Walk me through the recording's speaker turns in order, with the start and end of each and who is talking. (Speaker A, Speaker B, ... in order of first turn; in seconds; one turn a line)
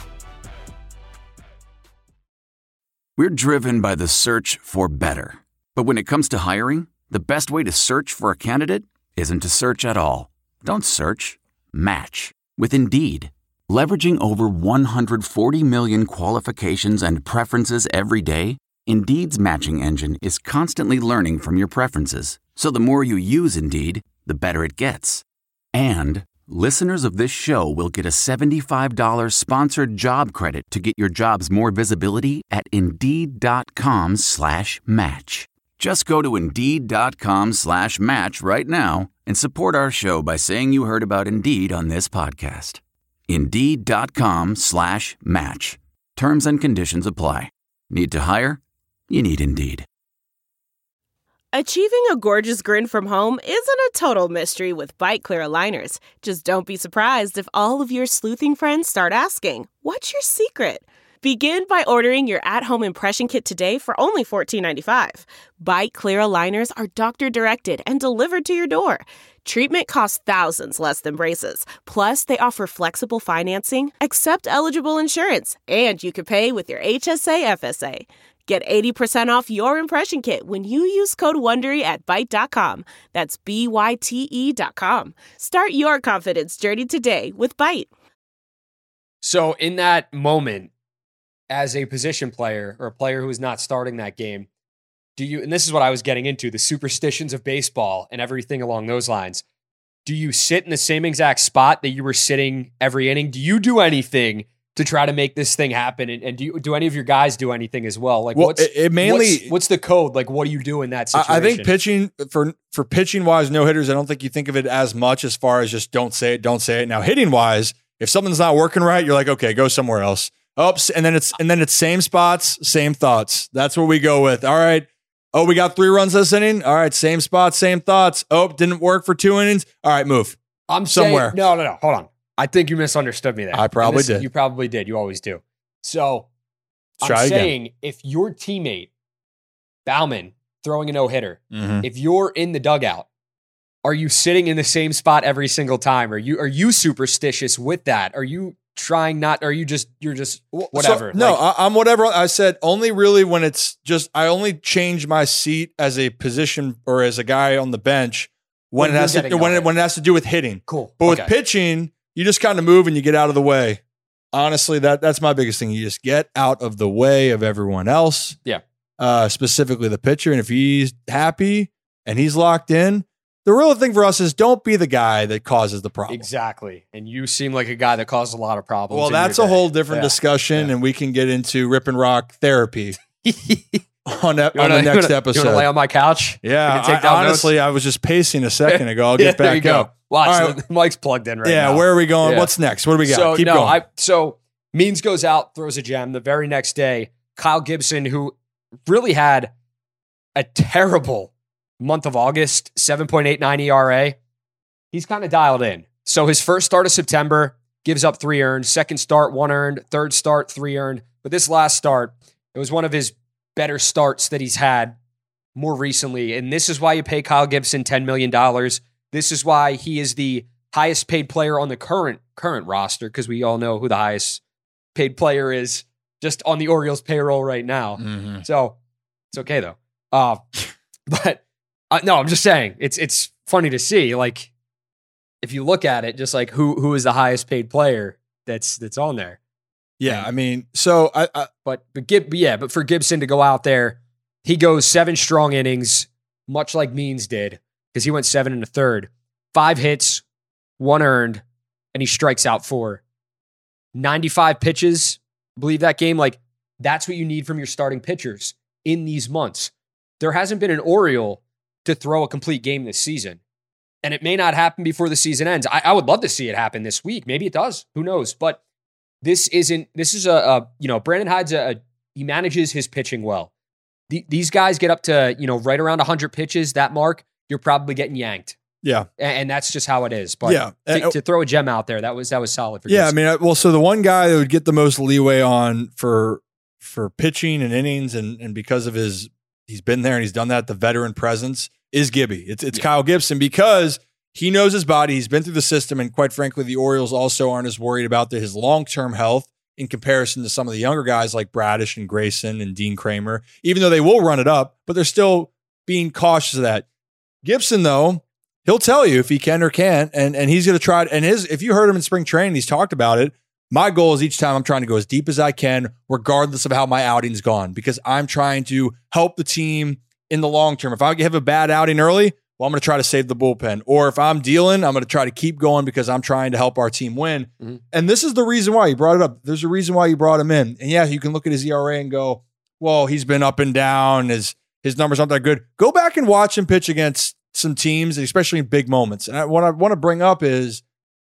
Speaker A: 3.2-49.9
Speaker B: 51.5-87.9
Speaker C: 89.2-90.7
Speaker C: 91.5-94.5
Speaker C: 95.2-99.4
Speaker C: 100.0-111.7
Speaker D: 108.3-109.5
Speaker D: 111.1-131.4
Speaker C: 130.7-136.3
Speaker D: 133.5-134.2
Speaker C: 137.0-138.9
Speaker D: 137.0-137.5
Speaker C: 139.8-143.1
Speaker D: 141.5-141.8
Speaker C: 143.8-151.4
Speaker D: 150.5-163.8
Speaker C: 158.8-159.7
Speaker C: 160.7-161.3
Speaker D: 164.3-168.4
Speaker D: 169.0-176.3
Speaker C: 176.1-180.7
Speaker D: 178.9-182.9
Speaker C: 183.2-183.8
Speaker D: 184.1-185.7
Speaker C: 184.5-187.5
Speaker D: 186.4-190.6
Speaker C: 188.7-198.3
Speaker D: 191.4-193.8
Speaker C: 198.8-199.5
Speaker C: 200.3-204.2
Speaker C: 204.9-215.0
Speaker C: 215.6-224.4
Speaker C: 224.9-228.8
Speaker D: 228.0-228.4
Speaker C: 229.3-234.5
Speaker C: 235.4-239.4
Speaker D: 240.0-241.5
Speaker C: 241.6-250.2
Speaker C: 250.8-251.4
Speaker C: 251.9-253.0
Speaker C: 253.9-263.4
Speaker C: 264.0-268.6
Speaker C: 269.2-273.5
Speaker C: 274.1-278.6
Speaker D: 278.8-279.1
Speaker C: 279.2-283.1
Speaker D: 280.4-281.2
Speaker D: 282.9-306.8
Speaker D: 307.4-340.8